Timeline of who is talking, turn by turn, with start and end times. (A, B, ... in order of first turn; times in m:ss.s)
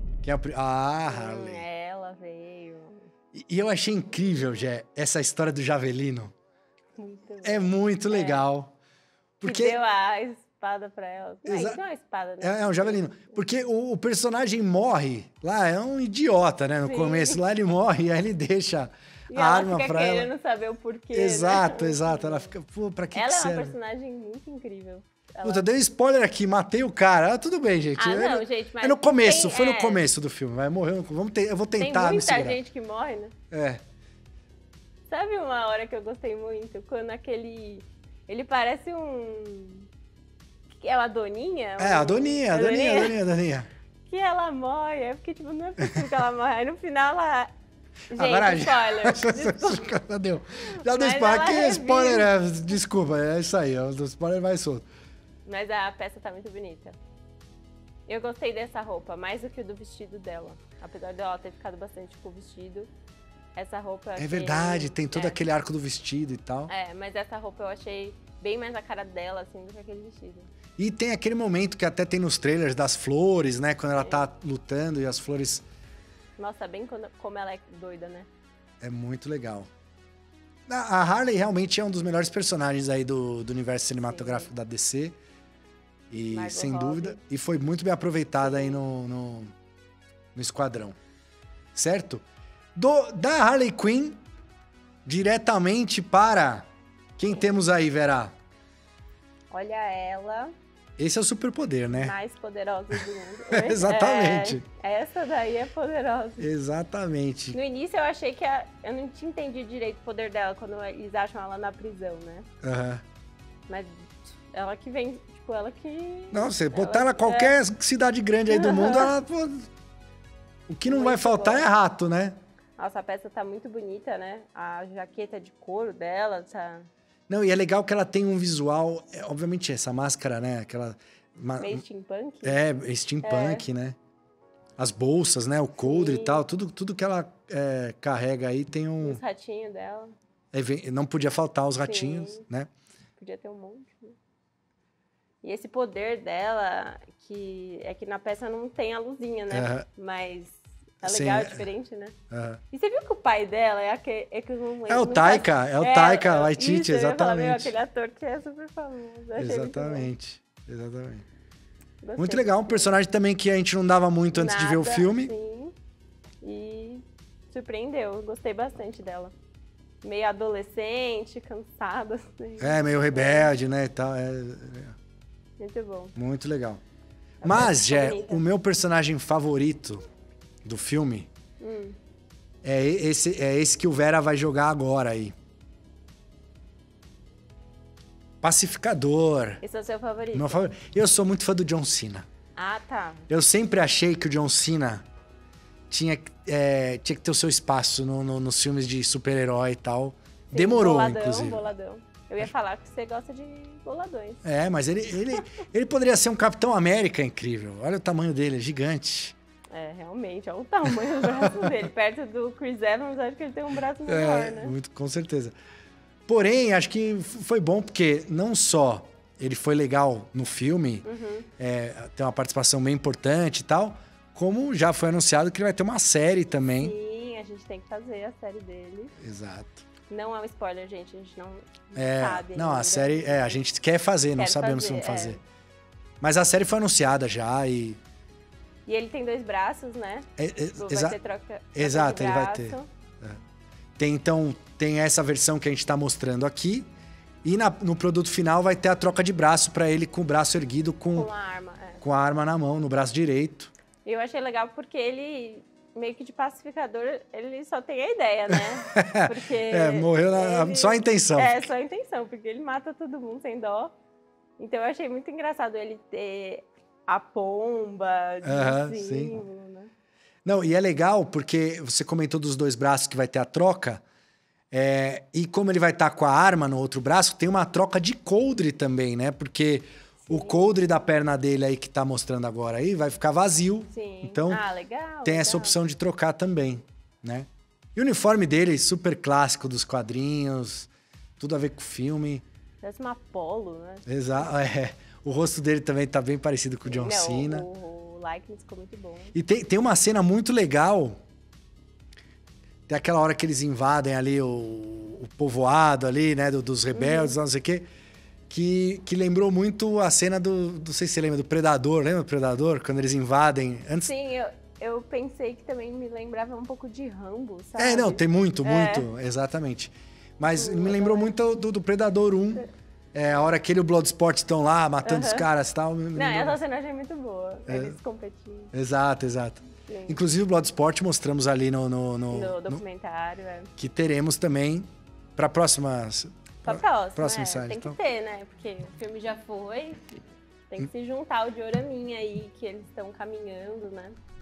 0:00.2-0:01.6 A
0:01.1-0:03.1 B
0:03.3-0:06.3 A
0:07.0-0:08.4 B
0:07.4-0:08.7 A
0:09.4-0:09.8 A
0:09.4-0:13.3 B
0:11.4-0:11.8 A
0:12.4-0:20.3 A
0:16.8-0:17.4 B
0:19.3-0:22.5 B
0:21.1-0:23.7 A
0:23.1-0:25.6 B
0:25.4-0:32.6 A
0:28.0-0:30.0 B
0:31.8-0:33.3 B
0:33.5-0:33.8 A
0:35.1-0:39.9 B
0:40.8-0:43.2 B
0:41.8-0:43.7 A
0:44.1-0:47.5 B
0:48.1-0:50.0 B
0:48.1-0:54.8 A
0:50.6-0:52.3 B
0:55.4-0:57.0 B
0:58.1-1:02.9 B
1:03.5-1:05.4 B
1:04.2-1:06.7 A
1:06.7-1:10.5 B
1:10.8-1:15.6 A
1:14.0-1:14.3 B
1:16.4-1:18.3 B
1:18.8-1:19.7 A
1:20.7-1:25.2 A
1:24.0-1:24.5 B
1:26.1-1:29.5 A
1:26.3-1:27.2 B
1:28.4-1:28.8 B
1:30.3-1:31.0 A
1:31.7-1:32.2 A
1:32.8-1:34.2 A
1:35.0-1:38.3 A
1:37.3-1:37.6 B
1:39.5-1:40.5 B
1:41.0-1:42.1 A
1:41.9-1:46.5 B
1:43.5-1:44.6 A
1:46.4-1:47.6 A
1:47.5-1:52.4 B
1:52.6-1:53.0 A
1:53.7-1:57.6 B
1:56.3-1:59.7 A
1:58.5-1:59.1 B
2:00.7-2:02.4 A
2:00.8-2:01.6 B
2:02.8-2:06.9 B
2:07.3-2:11.8 A
2:11.6-2:12.6 B
2:12.4-2:14.0 A
2:13.2-2:13.6 B
2:14.8-2:19.2 A
2:15.8-2:16.4 B
2:19.0-2:20.1 B
2:20.5-2:22.7 A
2:21.8-2:22.4 B
2:23.2-2:24.2 B
2:25.4-2:32.1 B
2:29.5-2:29.8 A
2:31.0-2:31.7 A
2:32.3-2:32.6 A
2:32.7-2:40.1 B
2:34.9-2:37.7 A
2:39.4-2:41.2 A
2:42.0-2:42.9 B
2:42.2-2:45.3 A
2:44.3-2:45.7 B
2:46.4-2:49.3 B
2:50.0-2:53.5 B
2:52.6-2:55.0 A
2:55.6-2:56.1 B
2:56.2-2:56.8 A
2:57.4-2:58.4 B
2:57.4-3:00.0 A
3:00.6-3:01.3 A
3:01.6-3:02.0 B
3:02.6-3:05.3 A
3:08.4-3:09.6 A
3:09.6-3:10.6 B
3:10.3-3:12.3 A
3:12.6-3:13.3 B
3:13.3-3:15.0 A
3:15.9-3:21.6 A
3:20.5-3:24.4 B
3:24.4-3:29.4 A
3:29.7-3:34.7 B
3:31.2-3:31.7 A
3:34.0-3:35.5 A
3:36.3-3:41.0 A
3:41.0-3:41.5 B
3:41.6-3:46.9 A
3:46.8-3:49.1 B
3:49.2-3:49.8 A
3:50.1-3:53.6 B
3:51.9-3:55.4 A
3:54.4-3:55.4 B
3:56.2-3:58.0 A
3:58.9-4:00.3 B
4:00.4-4:01.2 A
4:00.8-4:02.9 B
4:01.7-4:03.4 A
4:04.0-4:06.9 A
4:07.4-4:11.3 A
4:11.1-4:12.0 B
4:12.0-4:13.7 A
4:14.0-4:23.9 B
4:18.5-4:21.7 A
4:24.6-4:29.9 B
4:28.4-4:29.4 A
4:30.4-4:34.0 A
4:34.7-4:44.6 A
4:40.2-4:40.7 B
4:43.9-4:45.8 B
4:45.2-4:52.4 A
4:52.8-4:54.0 B
4:54.0-4:57.6 A
4:56.9-4:59.3 B
4:59.3-5:01.2 A
5:02.9-5:07.8 A
5:06.9-5:07.4 B
5:08.5-5:14.1 A
5:14.0-5:19.1 B
5:17.8-5:26.6 A
5:20.5-5:21.3 B
5:25.0-5:25.5 B
5:26.1-5:28.7 B
5:27.7-5:28.0 A
5:28.7-5:32.8 A
5:29.9-5:30.2 B
5:32.3-5:33.7 B
5:33.8-5:38.0 A
5:36.6-5:40.1 B
5:40.7-5:44.2 B